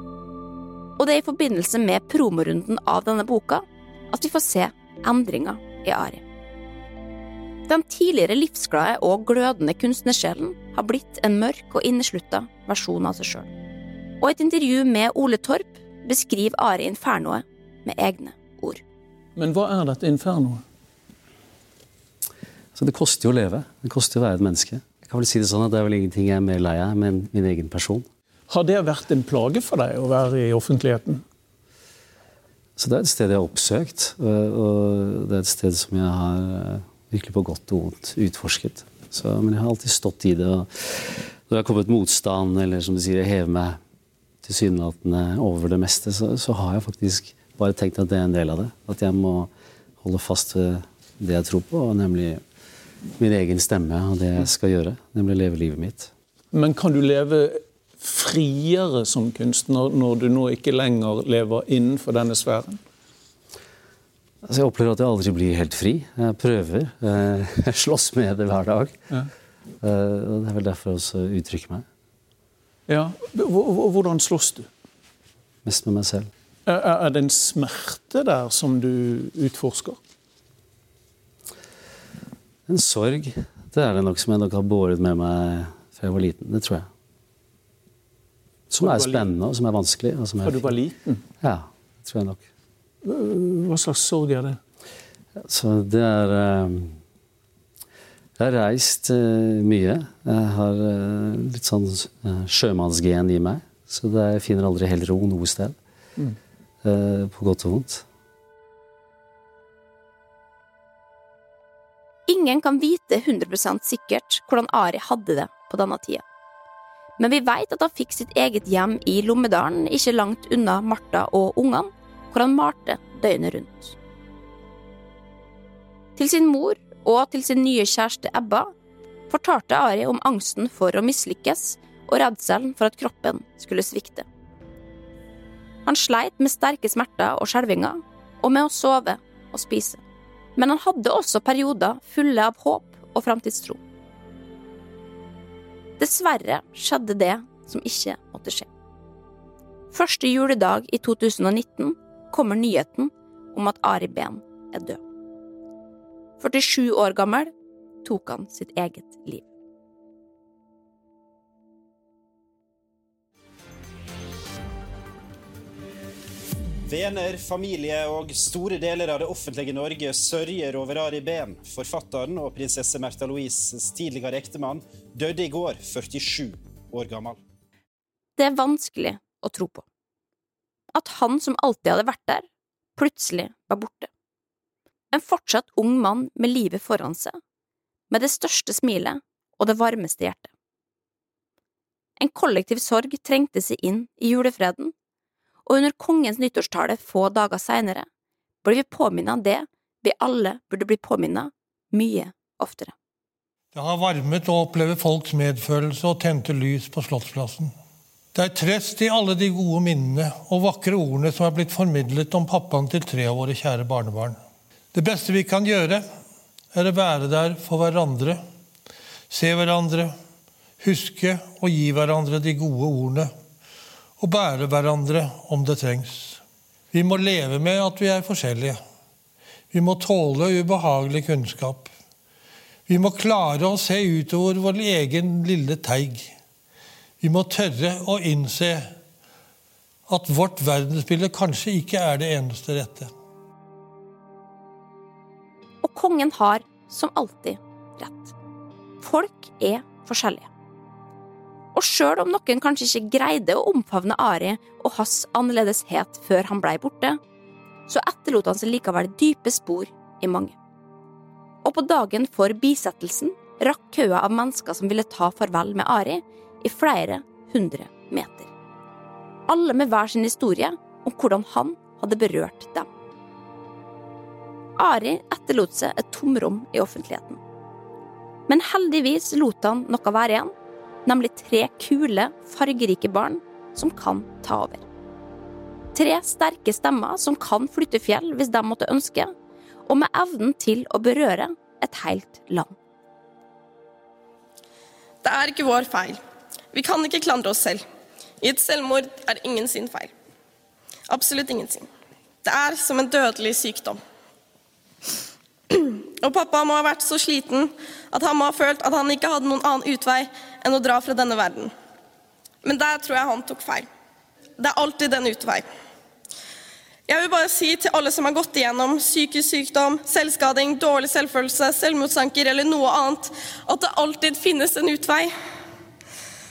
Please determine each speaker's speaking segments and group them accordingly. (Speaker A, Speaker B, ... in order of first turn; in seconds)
Speaker A: 1.0-6.2, 7.7-13.5, 14.2-18.8, 112.3-116.2, 117.2-123.9, 126.2-128.7, 129.3-134.2, 135.8-140.0, 140.6-143.8, 146.0-148.7, 149.9-155.0, 156.4-157.5, 158.0-159.4, 178.4-179.8, 180.9-184.1, 185.1-187.4, 188.1-190.5, 192.2-194.9, 195.7-198.1, 198.6-202.9, 245.8-248.3, 249.0-250.5, 251.7-257.2, 257.9-260.6, 261.6-268.5, 269.5-272.9, 274.8-277.4, 278.5-280.5, 281.0-284.8, 285.9-289.3, 289.9-292.7
Speaker B: 19.4-20.6, 28.5-31.2, 56.5-62.8, 72.9-74.7, 76.7-80.0, 88.8-89.3, 90.4-91.2, 93.0-94.6
Speaker C: 22.7-28.1, 32.8-43.8, 44.4-52.4, 53.2-56.1, 64.4-69.0, 69.8-71.8, 75.6-76.3, 82.7-86.9, 88.7-90.8, 91.4-92.4, 95.4-97.0, 98.4-105.8, 106.8-108.0
Speaker D: 166.8-177.4
Speaker E: 203.7-207.7, 208.3-214.4, 214.9-216.1, 216.7-218.4, 219.3-220.1, 220.8-223.3, 224.2-226.4, 226.9-228.8, 229.7-231.9, 232.9-236.3, 237.2-238.9, 240.1-243.1
Speaker F: 295.2-296.2, 296.7-297.8, 298.4-300.1, 301.1-301.9, 302.4-304.0, 305.7-311.7, 312.6-313.9, 314.6-315.6, 317.1-325.3